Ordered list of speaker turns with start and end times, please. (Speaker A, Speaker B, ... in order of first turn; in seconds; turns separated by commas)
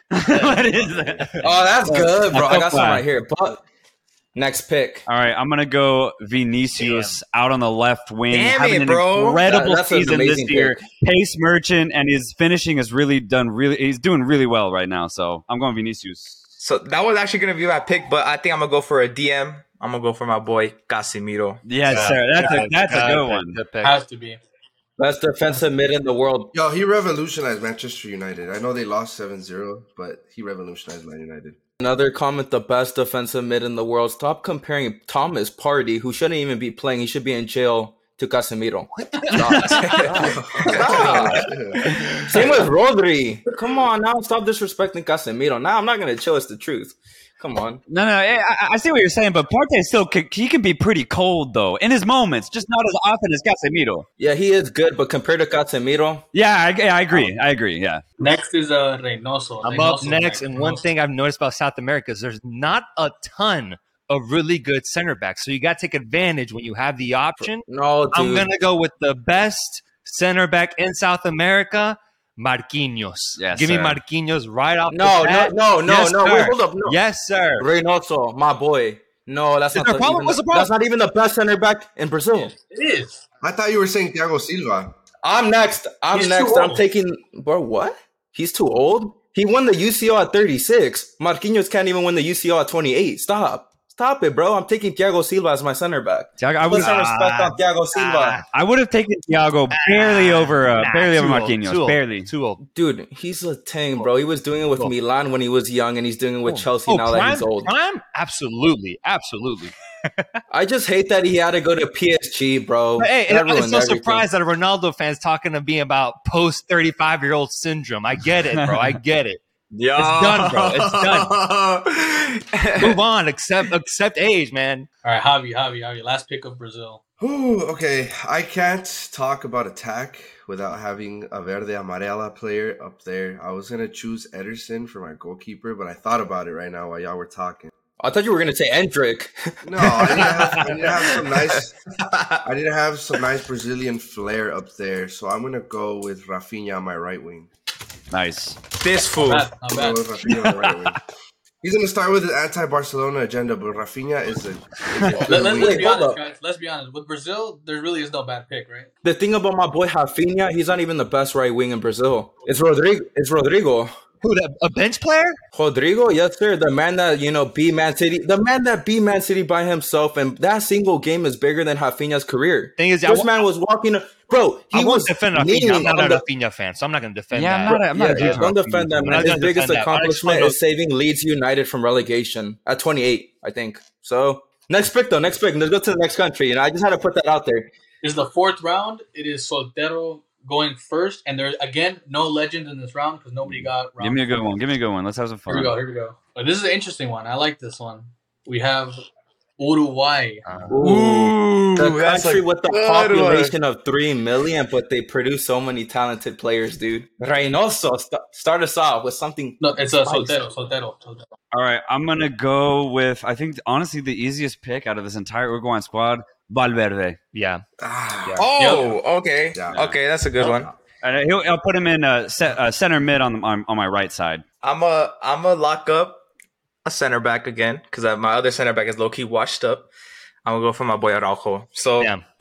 Speaker A: 0.1-3.0, Speaker B: 0.8-1.2, Speaker C: 1.4-3.6, Speaker C: 4.3-5.1, Speaker A: 5.1-16.5, Speaker D: 6.8-7.2, Speaker E: 8.3-9.4, Speaker C: 9.4-10.8, Speaker E: 16.6-22.0, Speaker A: 21.6-23.6, Speaker D: 21.8-24.0, Speaker F: 23.8-24.4, Speaker C: 25.0-26.5, Speaker B: 26.5-31.6, Speaker C: 31.8-41.5, Speaker D: 39.0-40.2, Speaker A: 39.4-39.9, Speaker B: 40.0-41.9, Speaker A: 40.7-41.2, Speaker E: 40.8-41.4, Speaker A: 41.8-42.4, Speaker C: 42.3-47.8, Speaker A: 47.9-54.1, Speaker C: 54.2-56.3, Speaker A: 56.3-58.0, Speaker F: 58.2-60.8, Speaker D: 59.6-77.7, Speaker C: 67.4-68.5, Speaker A: 73.4-74.0, Speaker C: 74.9-77.0, Speaker C: 77.6-82.5, Speaker D: 79.7-80.7, Speaker F: 82.5-83.2, Speaker B: 83.4-84.9, Speaker C: 85.2-98.4, Speaker F: 86.1-86.8, Speaker D: 96.4-98.5, Speaker A: 96.5-97.0, Speaker A: 98.5-102.3, Speaker D: 99.7-102.6, Speaker C: 102.6-107.7, Speaker D: 106.5-109.7, Speaker C: 110.5-114.3, Speaker D: 113.0-119.4, Speaker A: 118.6-118.9, Speaker E: 119.7-123.0, Speaker D: 120.0-121.3, Speaker D: 122.8-124.9, Speaker F: 125.0-127.0, Speaker B: 127.2-137.7, Speaker C: 138.0-140.3, Speaker B: 139.6-141.7, Speaker E: 140.0-142.4, Speaker B: 142.4-147.5, Speaker A: 148.1-148.6, Speaker E: 148.8-149.5, Speaker F: 149.2-150.1, Speaker B: 149.7-151.0, Speaker B: 151.6-155.9, Speaker C: 155.0-156.2, Speaker F: 155.3-158.9, Speaker C: 159.0-163.9, Speaker D: 164.2-165.4, Speaker C: 165.5-176.3, Speaker D: 172.8-173.3, Speaker D: 174.7-180.6, Speaker A: 177.3-179.3, Speaker C: 177.7-187.7, Speaker F: 188.0-194.2, Speaker A: 194.0-195.7, Speaker F: 195.5-199.0, Speaker F: 199.6-200.4, Speaker D: 200.4-200.8, Speaker C: 200.7-210.5, Speaker E: 200.8-203.6, Speaker F: 209.6-211.3, Speaker A: 211.5-217.2, Speaker D: 217.3-217.6, Speaker B: 217.8-218.5, Speaker E: 218.4-220.7, Speaker F: 218.6-218.9, Speaker B: 219.5-220.8, Speaker A: 221.0-224.4, Speaker E: 224.6-226.2, Speaker E: 226.8-229.9, Speaker E: 230.4-232.1